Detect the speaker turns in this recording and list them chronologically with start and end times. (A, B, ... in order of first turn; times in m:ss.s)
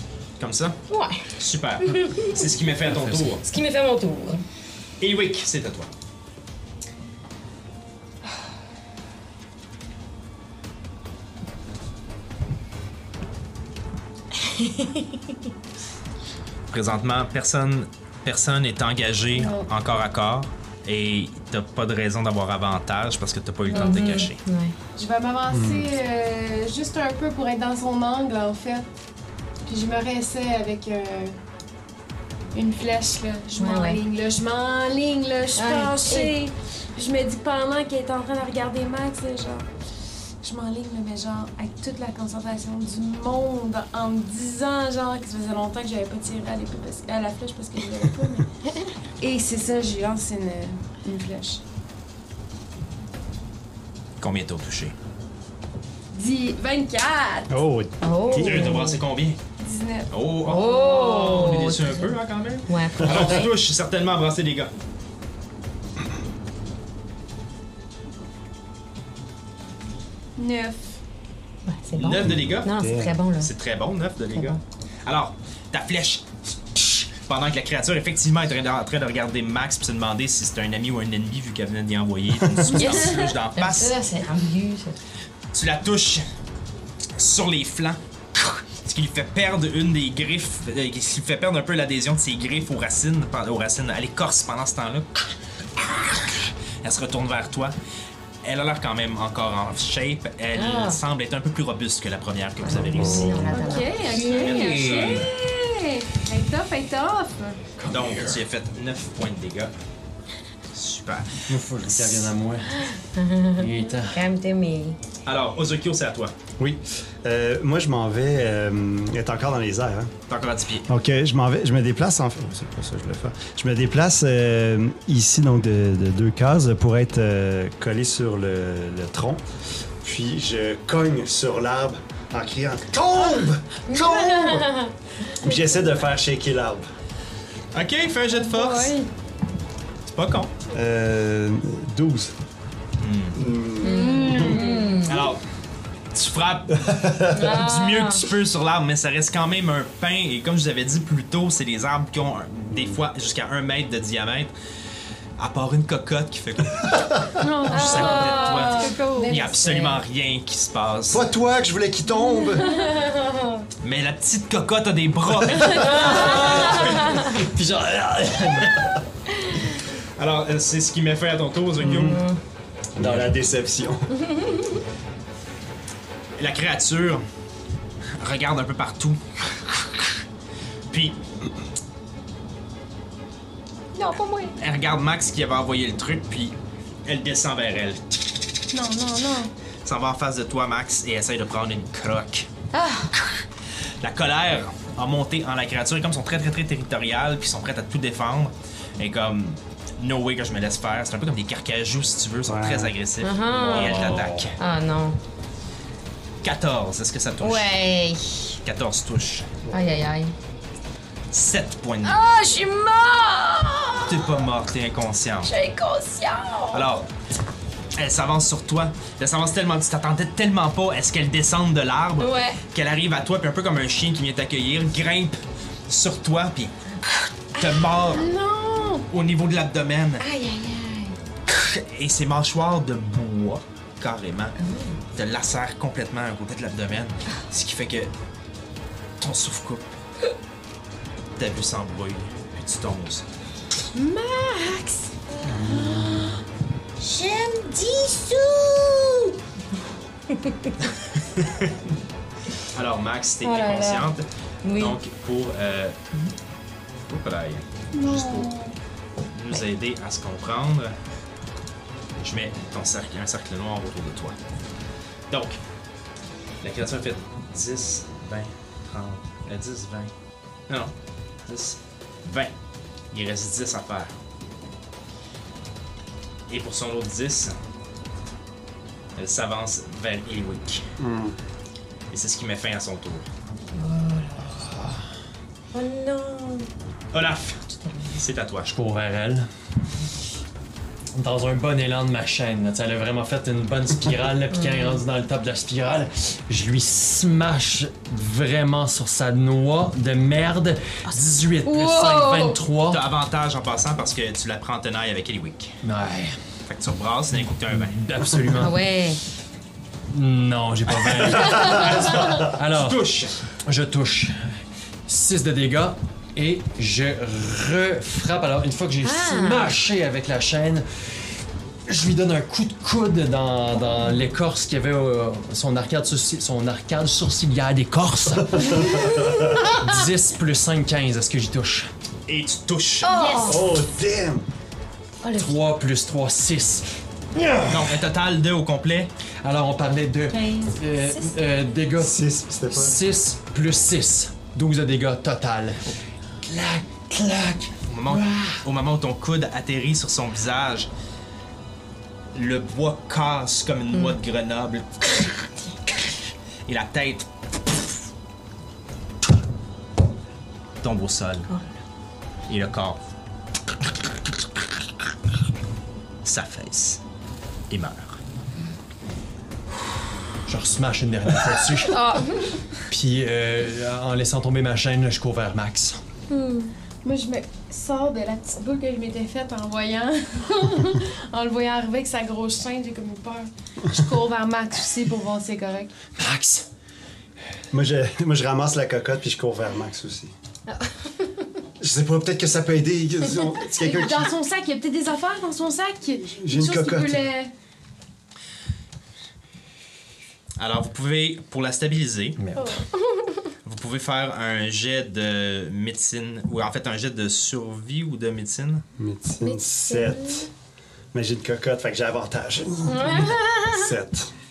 0:00.4-0:00.8 A
0:00.9-0:01.3 B
0:01.4-0:03.5 A
0:01.8-0:02.5 B
0:02.9-0:03.4 C
0:03.4-0:04.4 B
0:05.0-0:05.9 A
0:14.4-0:15.2 B
0:16.7-0:24.4 A
0:19.3-0:19.7 D
0:23.7-0:24.8 B
0:25.0-0:28.9 D
0:25.5-0:25.9 E
0:29.7-0:31.4 D
0:32.5-0:39.7 D
0:33.6-0:34.0 B
0:35.6-0:36.3 B
0:40.4-0:48.5 D
0:49.2-0:51.6 D
0:54.2-0:55.0 A
0:56.1-0:57.6 D
0:57.5-0:58.7 E
0:58.0-0:59.0 B
0:58.3-0:59.4 A
0:59.6-1:01.0 D
1:00.1-1:04.7 A
1:00.4-1:02.2 B
1:02.7-1:03.5 B
1:10.4-1:10.9 D
1:11.7-1:13.5 B
1:12.0-1:12.7 A
1:12.2-1:13.2 E
1:13.4-1:24.0 A
1:22.7-1:25.0 B
1:25.5-1:26.3 A
1:27.2-1:35.2 A
1:35.8-1:37.7 A
1:38.4-1:45.3 A
1:40.5-1:41.0 B
1:42.6-1:44.5 B
1:42.9-1:43.5 E
1:43.5-1:47.6 D
1:44.2-1:45.3 C
1:47.8-1:48.4 C
1:47.9-1:49.7 A
1:50.7-1:52.3 A
1:51.5-1:52.9 C
1:52.8-1:55.0 B
1:53.6-1:54.2 C
1:55.3-1:56.4 A
1:56.6-2:00.1 E
2:00.3-2:00.9 A
2:00.9-2:09.4 E
2:10.0-2:14.7 E
2:13.9-2:15.6 B
2:15.4-2:16.8 E
2:17.7-2:19.0 A
2:18.4-2:19.1 D
2:20.1-2:20.5 A
2:20.7-2:22.3 E
2:23.0-2:23.4 A
2:23.4-2:24.6 E
2:23.8-2:25.2 B
2:23.8-2:25.1 D
2:25.0-2:25.4 A
2:26.1-2:34.5 A
2:26.8-2:27.3 E
2:27.3-2:28.2 B
2:32.7-2:33.0 E
2:35.4-2:41.2 A
2:37.4-2:39.6 D
2:37.7-2:40.0 B
2:41.1-2:42.7 E
2:42.2-2:43.6 B
2:42.6-2:43.1 D
2:43.8-2:47.3 A
2:45.6-2:46.1 E
2:45.8-2:47.4 B
2:45.9-2:49.0 C
2:50.2-2:52.2 A
2:51.8-2:52.4 B
2:53.0-2:54.1 E
2:53.0-2:53.3 C
2:54.2-2:54.7 B
2:56.4-2:57.2 A
2:58.2-3:00.2 A
3:00.9-3:01.2 A
3:03.9-3:04.6 B
3:04.6-3:08.3 A
3:08.7-3:09.5 D
3:09.8-3:12.5 A
3:12.7-3:13.1 B
3:14.0-3:24.6 A
3:22.5-3:22.9 E
3:23.2-3:25.2 B
3:23.8-3:24.5 E
3:23.8-3:24.1 C
3:26.4-3:27.7 A
3:27.4-3:28.6 B
3:28.6-3:29.5 A
3:29.6-3:30.0 E
3:29.7-3:30.4 B
3:31.3-3:32.2 A
3:32.0-3:34.5 B
3:34.1-3:35.5 A
3:35.4-3:36.9 B
3:36.7-3:37.1 A
3:38.0-3:46.8 A
3:42.2-3:42.6 B
3:47.6-3:48.3 A
3:47.6-3:48.0 B
3:48.1-3:49.1 D
3:49.1-3:50.2 A
3:50.2-3:51.2 B
3:51.5-3:54.6 A
3:54.6-3:55.0 B
3:55.1-3:58.1 A
3:59.2-4:00.0 A
4:01.4-4:03.3 A
4:04.0-4:05.2 D
4:05.4-4:06.4 B
4:05.5-4:06.3 E
4:07.0-4:09.4 B
4:10.3-4:10.8 B
4:11.3-4:11.7 A
4:12.7-4:14.2 A
4:13.4-4:14.1 B
4:14.6-4:15.0 B
4:14.8-4:16.0 A
4:17.1-4:18.5 A
4:17.9-4:18.8 D
4:19.3-4:21.0 A
4:22.2-4:24.4 A
4:25.3-4:25.6 A
4:26.6-4:30.1 A
4:30.7-4:30.9 A
4:31.5-4:32.5 A
4:33.1-4:34.1 A
4:36.5-4:37.6 A
4:39.2-4:40.8 A
4:41.0-4:41.4 E
4:42.1-4:43.3 A
4:43.7-4:44.7 B
4:44.7-4:45.0 C
4:45.7-4:46.7 B
4:47.1-4:47.6 A
4:47.7-4:48.2 B
4:48.2-4:48.7 A
4:48.7-4:49.5 C
4:51.2-5:03.1 C
4:54.5-4:55.0 B
5:01.6-5:02.6 B
5:02.9-5:05.8 A
5:05.8-5:06.4 C
5:06.7-5:08.0 A
5:07.7-5:08.8 C
5:08.6-5:09.2 B
5:10.1-5:13.0 C
5:11.0-5:13.4 A
5:13.6-5:31.9 C
5:19.0-5:19.7 B
5:28.5-5:29.5 E
5:32.3-5:33.1 A
5:33.0-5:33.7 B
5:33.2-5:33.6 D
5:33.4-5:34.5 E
5:35.2-5:35.6 B
5:35.4-5:38.0 C
5:37.7-5:39.1 A
5:39.4-5:48.6 C
5:40.3-5:41.4 B
5:42.0-5:43.0 E
5:47.9-5:50.9 A
5:52.3-5:55.5 A
5:56.7-5:57.9 A
6:00.8-6:01.5 A
6:02.5-6:03.0 A
6:06.2-6:07.0 A
6:07.7-6:08.2 A
6:10.5-6:12.0 C
6:11.9-6:12.6 B
6:12.9-6:16.0 C
6:16.3-6:16.7 B
6:17.0-6:25.9 D
6:26.1-6:26.7 C
6:27.7-6:30.3 E
6:31.8-6:34.4 E
6:33.6-6:37.5 D
6:36.4-6:37.3 E
6:40.6-6:42.4 A
6:42.4-6:42.8 C
6:43.6-6:48.8 A
6:49.0-6:50.5 E
6:49.4-6:50.5 B
6:51.1-6:54.3 E
6:52.9-6:53.9 B